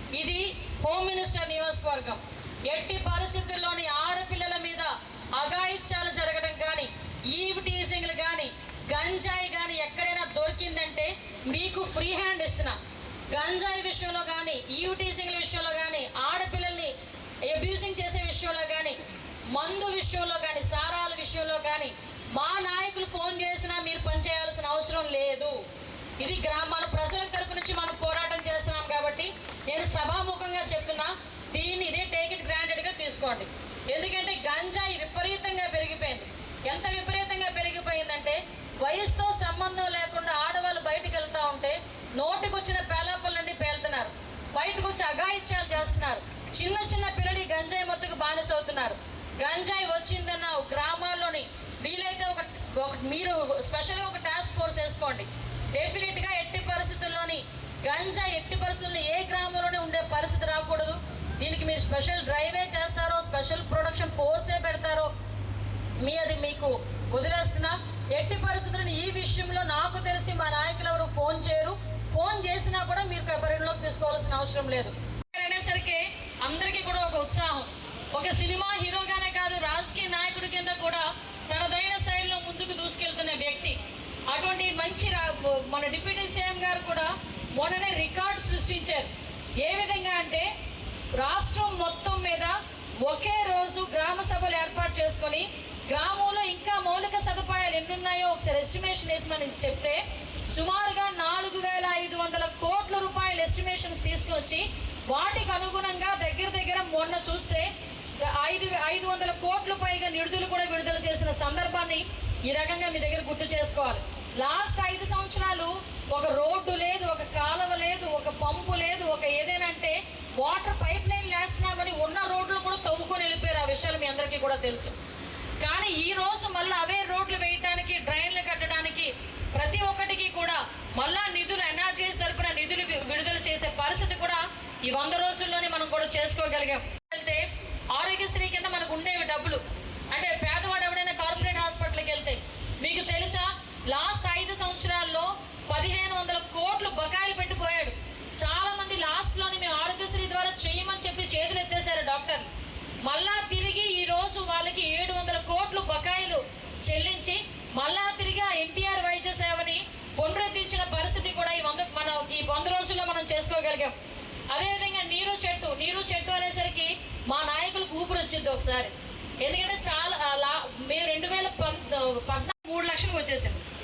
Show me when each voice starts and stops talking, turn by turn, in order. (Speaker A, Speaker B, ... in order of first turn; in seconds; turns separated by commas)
Speaker A: 0.2-12.8, Speaker A: 13.3-16.9, Speaker A: 17.5-19.0, Speaker A: 19.5-25.6, Speaker A: 26.2-65.1, Speaker A: 66.0-90.5, Speaker A: 91.2-100.0, Speaker A: 100.5-107.7, Speaker A: 108.2-125.0, Speaker A: 125.6-139.6, Speaker A: 140.1-152.5, Speaker A: 153.1-164.0, Speaker A: 164.5-173.6